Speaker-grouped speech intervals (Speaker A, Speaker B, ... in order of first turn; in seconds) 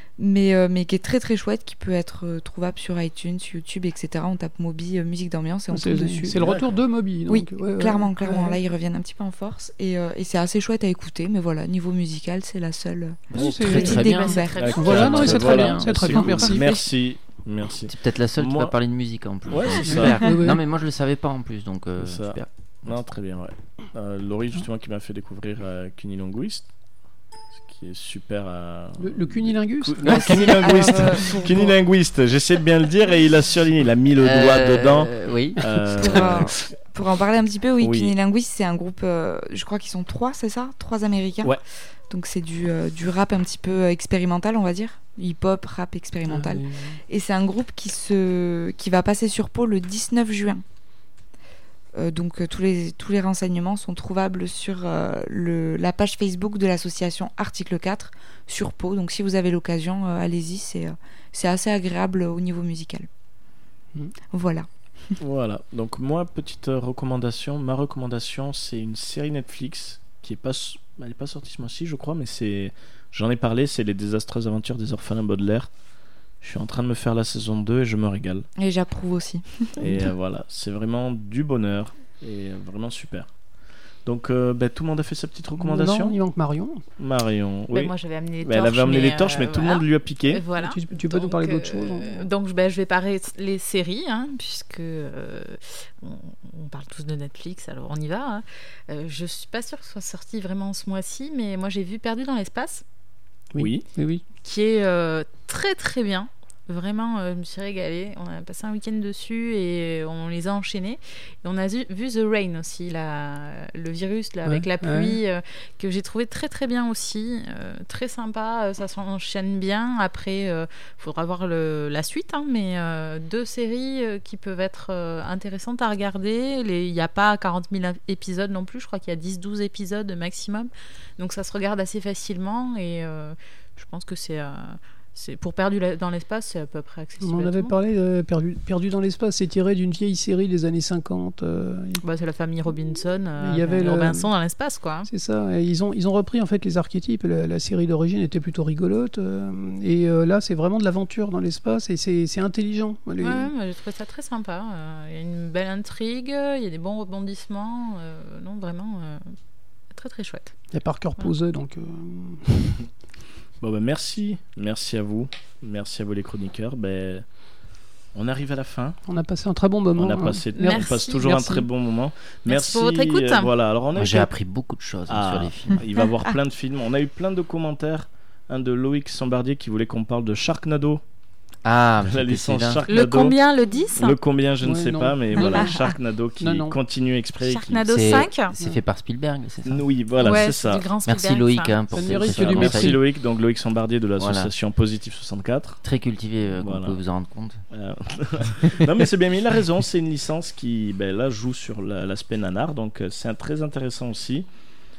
Speaker A: 0.2-6.6, 7.3-15.8, 30.1-31.8, 36.0-41.6, 42.1-50.6, 52.0-63.1, 64.3-64.7, 78.6-80.1
Speaker B: 5.7-8.6, 13.3-16.8, 19.8-20.6, 29.0-31.3, 46.3-47.0, 85.6-86.8, 90.5-92.3, 103.5-104.2, 114.5-115.2, 137.2-142.0, 143.4-144.3, 145.1-153.5, 160.7-162.9, 169.1-171.6, 184.6-185.8, 186.4-186.8, 191.9-193.0
Speaker C: 13.4-14.0, 14.6-18.8, 19.5-20.3, 22.0-26.7, 27.6-36.6, 37.8-38.1, 65.2-75.7, 76.4-78.5, 79.8-83.3, 84.0-86.2, 87.0-90.4, 103.6-103.8, 163.6-167.2, 168.1-169.0, 169.9-174.3, 175.1-181.0, 182.0-183.4, 184.0-187.9, 189.7-190.8, 192.1-195.8, 196.6-197.0, 197.7-204.5
Speaker D: 13.5-16.6, 17.9-22.5, 34.2-36.3, 173.9-175.9, 181.7-182.8, 187.9-189.8, 191.1-193.0, 194.2-194.5, 195.8-197.6
Speaker E: 13.9-15.6, 87.7-102.8, 104.4-137.7, 142.0-145.1, 153.2-159.3, 159.9-160.6, 170.6-171.5, 172.5-173.5, 182.9-184.2, 185.4-185.7, 187.4-188.6, 190.2-191.8